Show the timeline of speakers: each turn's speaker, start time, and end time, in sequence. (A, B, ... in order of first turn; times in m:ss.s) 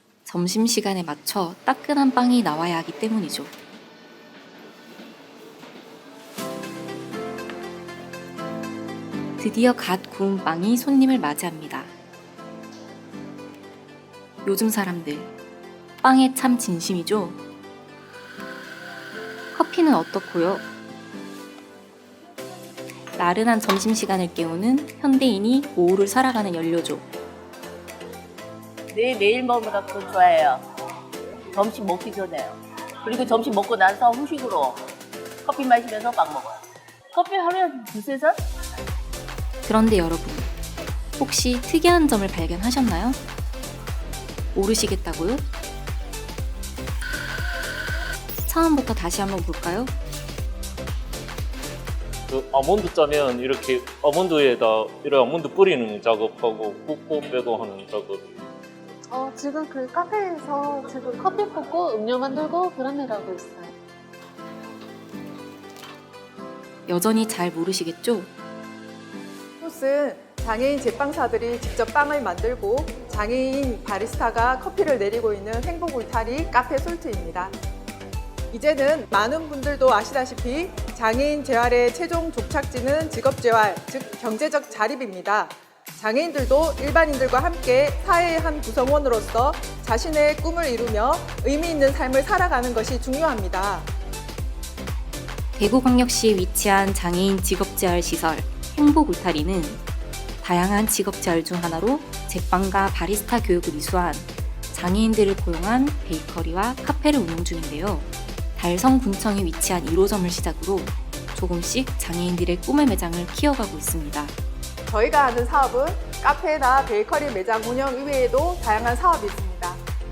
0:00.2-0:03.5 A
0:09.4-0:11.9 A
0:14.4-0:15.3 A
0:16.0-0:17.4 A
0:19.5-0:20.7 A
0:23.2-0:27.1 A
0:28.9-0:30.7 B
0:31.5-0:34.9 B
0:35.4-0:38.4 B
0:39.6-0:40.5 A
0:41.2-0:43.2 A
0:44.6-0:45.4 A
0:48.4-0:49.9 A
0:52.3-0:58.3 C
0:59.1-1:03.7 D
1:06.9-1:08.3 A
1:09.6-1:17.6 E
1:18.5-1:33.9 E
1:35.6-1:39.8 A
1:40.4-1:54.3 A
1:54.9-1:59.8 E